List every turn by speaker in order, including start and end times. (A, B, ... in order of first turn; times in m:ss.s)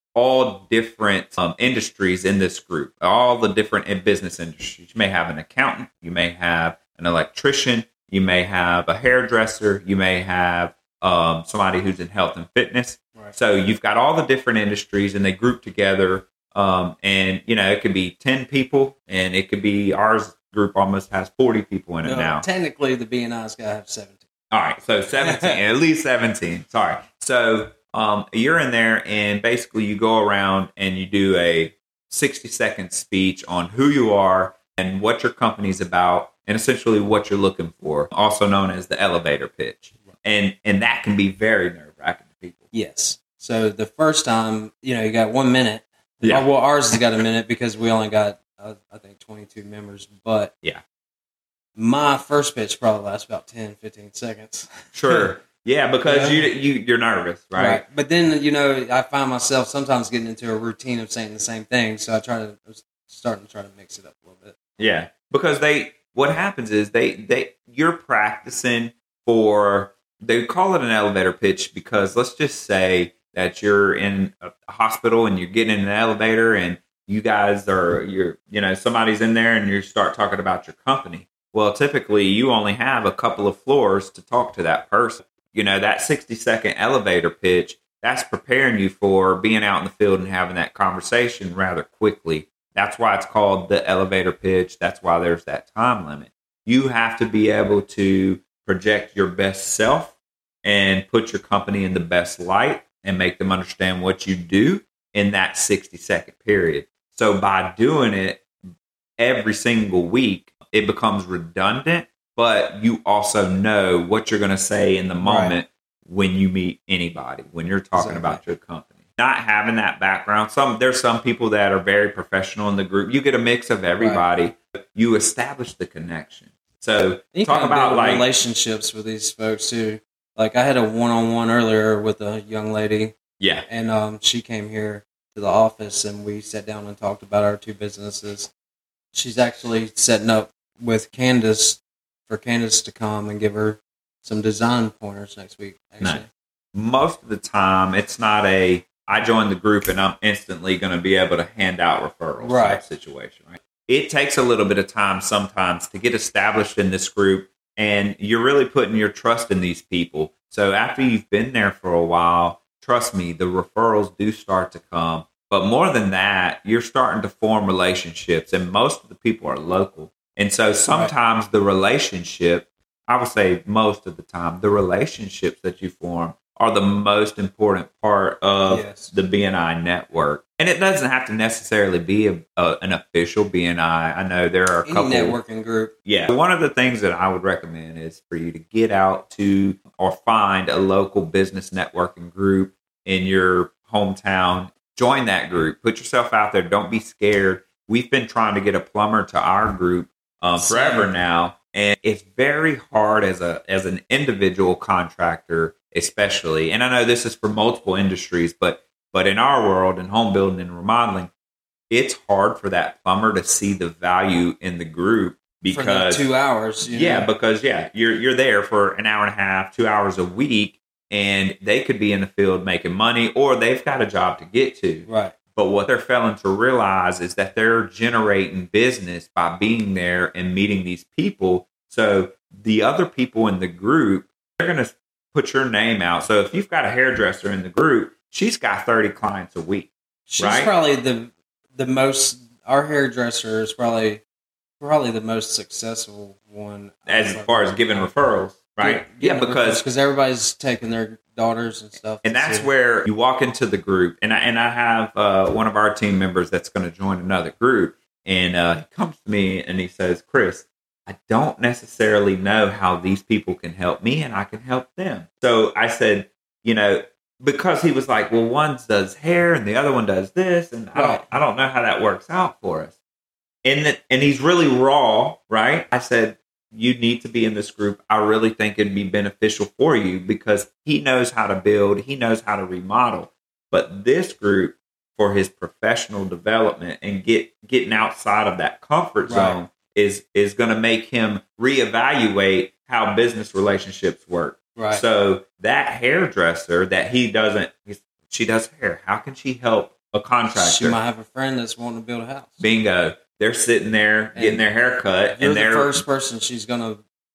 0:00.2-0:22.4 A
0:22.0-0:24.2 B
0:24.5-0:42.6 A
0:25.2-0:25.6 B
0:42.7-0:50.5 B
0:51.8-0:55.3 B
0:54.9-0:57.8 A
0:56.0-0:56.5 B
0:57.6-1:04.6 B
1:04.8-1:48.5 A
1:49.2-2:08.3 A
1:55.2-1:55.6 B
1:58.0-1:58.4 B
2:04.0-2:04.2 B
2:07.3-2:13.1 B
2:13.4-2:13.7 A
2:13.7-2:18.5 B
2:19.1-2:26.3 B
2:26.0-3:05.4 A
2:32.4-2:32.8 B
2:58.7-2:59.1 B
3:04.9-3:05.9 B
3:06.1-3:31.3 A
3:20.6-3:21.1 B
3:31.9-3:36.3 A
3:35.7-3:37.3 B
3:36.8-4:00.7 A
3:45.1-3:45.4 B
4:00.3-4:04.2 B
4:04.8-4:08.1 B
4:07.1-4:09.8 A
4:08.8-4:12.7 B
4:12.2-4:33.0 A
4:30.9-4:31.2 B
4:33.6-5:01.0 A
4:49.3-4:49.6 B
4:54.8-4:55.0 B
5:00.6-5:02.6 B
5:02.6-5:06.0 A
5:04.4-5:04.6 B
5:05.4-5:07.0 B